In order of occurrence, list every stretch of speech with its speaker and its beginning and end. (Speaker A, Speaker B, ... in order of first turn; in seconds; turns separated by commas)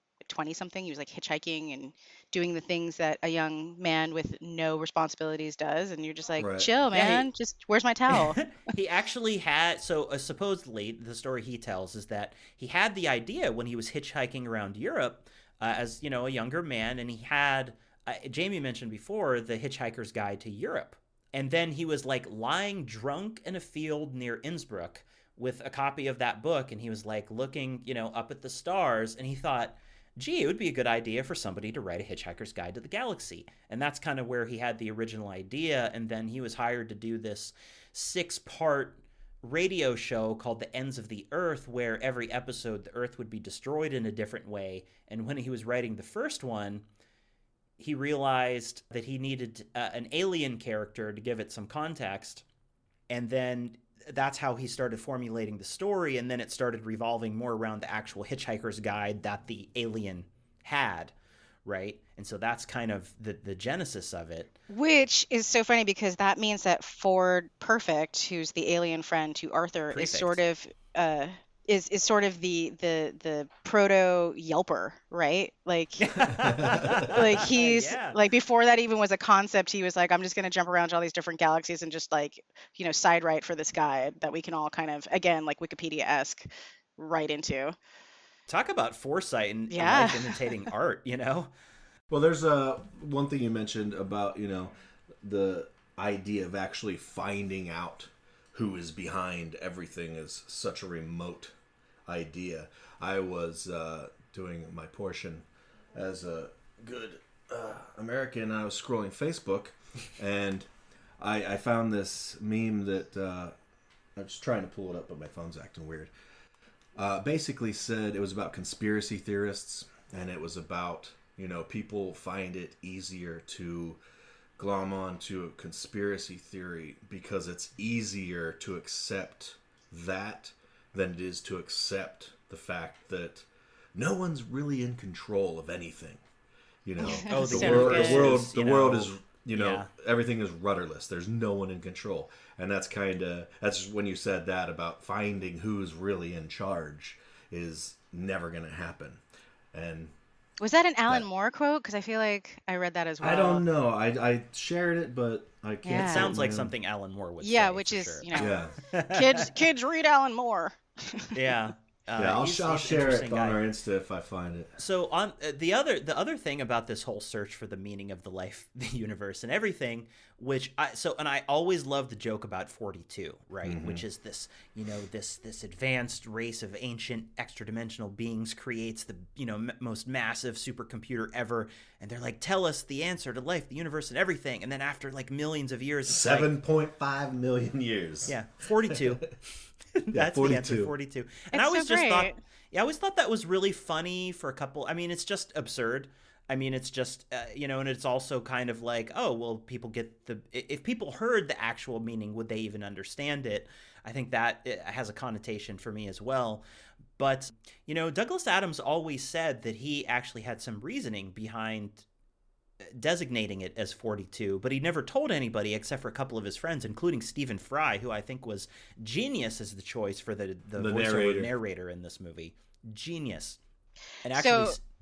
Speaker A: 0.2-8.4, Speaker B: 6.4-6.7, Speaker C: 6.9-7.3, Speaker C: 8.1-46.8, Speaker C: 47.8-52.4, Speaker C: 53.1-61.1, Speaker C: 61.6-64.5, Speaker A: 64.7-76.3, Speaker C: 69.9-70.4, Speaker C: 76.0-78.2, Speaker B: 76.3-77.1, Speaker A: 77.0-87.7, Speaker C: 88.5-91.5, Speaker A: 89.7-90.5, Speaker B: 92.1-101.5, Speaker B: 102.0-110.7, Speaker B: 111.2-113.5, Speaker B: 114.2-116.1, Speaker B: 117.0-124.0, Speaker B: 124.6-136.2, Speaker B: 136.8-149.2, Speaker A: 137.0-138.4, Speaker C: 137.3-139.9, Speaker B: 149.7-150.1, Speaker A: 150.6-153.6, Speaker B: 153.2-156.7, Speaker A: 155.8-156.3, Speaker C: 155.9-159.5, Speaker A: 157.4-161.3, Speaker B: 158.3-158.8, Speaker C: 161.3-163.6, Speaker B: 162.2-164.7, Speaker C: 164.8-186.5, Speaker B: 173.6-174.0, Speaker B: 186.1-189.3, Speaker C: 188.2-189.2, Speaker C: 189.9-206.6, Speaker B: 190.1-190.9, Speaker A: 191.5-192.4, Speaker C: 207.2-212.0, Speaker C: 212.9-223.6, Speaker B: 220.8-221.5, Speaker C: 224.2-224.8, Speaker A: 224.3-224.8